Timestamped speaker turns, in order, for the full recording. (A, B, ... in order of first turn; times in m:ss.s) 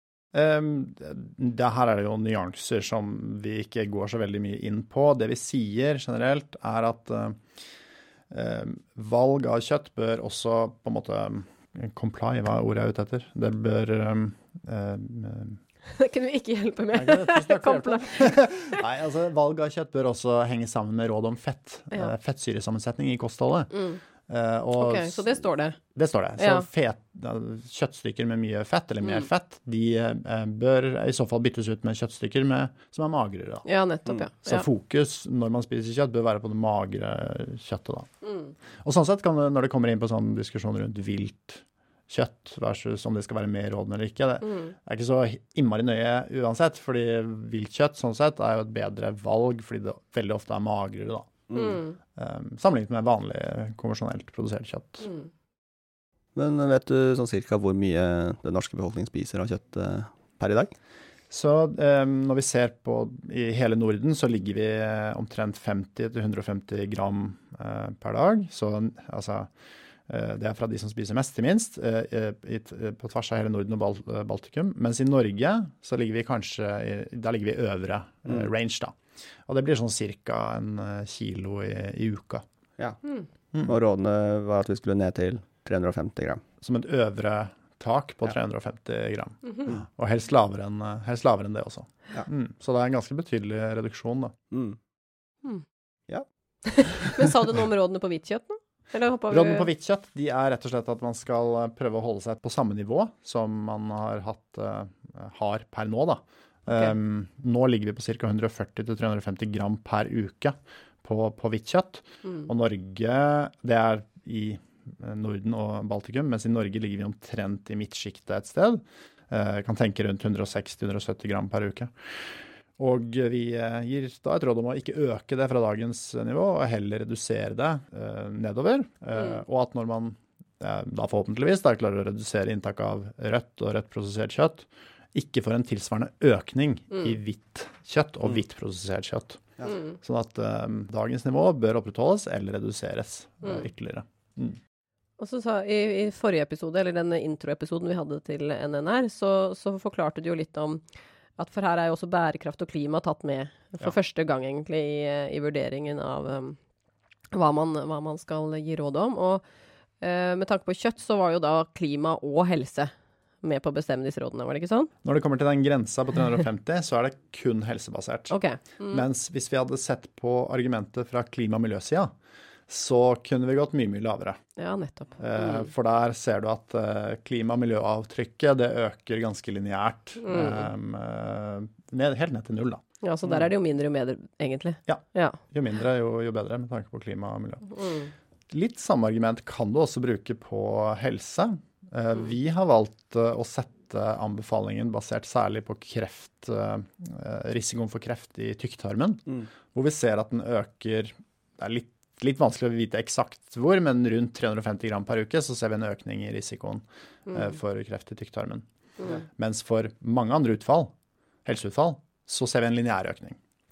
0:00.3-0:07.4 A
0:08.3-0:15.6 A
0:15.8-0:18.8 B
0:16.9-0:23.7 A
0:23.7-0:24.0 B
0:24.3-0:25.4 A
0:24.8-0:25.8 B
0:25.9-0:33.6 A
0:26.4-0:26.6 B
0:33.6-0:34.6 B
0:34.4-0:38.1 A
0:38.2-0:38.5 B
0:38.8-0:51.4 A
0:44.4-0:44.7 B
0:51.5-0:51.8 C
0:51.5-0:52.0 B
0:52.2-0:55.1 A
0:56.3-1:00.7 C
1:01.3-1:09.5 A
1:10.1-1:19.0 A
1:19.5-1:22.4 A
1:23.6-1:26.4 C
1:26.6-1:34.3 A
1:34.5-1:34.8 C
1:36.6-1:39.7 B
1:39.3-2:24.6 A
2:19.7-2:19.9 B
2:25.2-2:30.8 B
2:31.4-2:36.6 B
2:37.3-2:39.4 B
2:40.0-2:42.9 B
2:43.4-2:44.9 B
2:45.0-2:48.4 A
2:48.3-2:49.0 B
2:48.9-2:52.1 A
2:52.7-2:54.4 A
2:54.6-2:55.7 B
2:55.2-3:03.5 A
3:00.2-3:00.7 B
3:03.0-3:05.4 B
3:04.9-3:07.7 A
3:07.8-3:08.1 B
3:08.5-3:28.6 A
3:27.3-3:27.5 B
3:29.0-3:29.2 B
3:29.2-3:30.9 A
3:31.4-3:33.4 A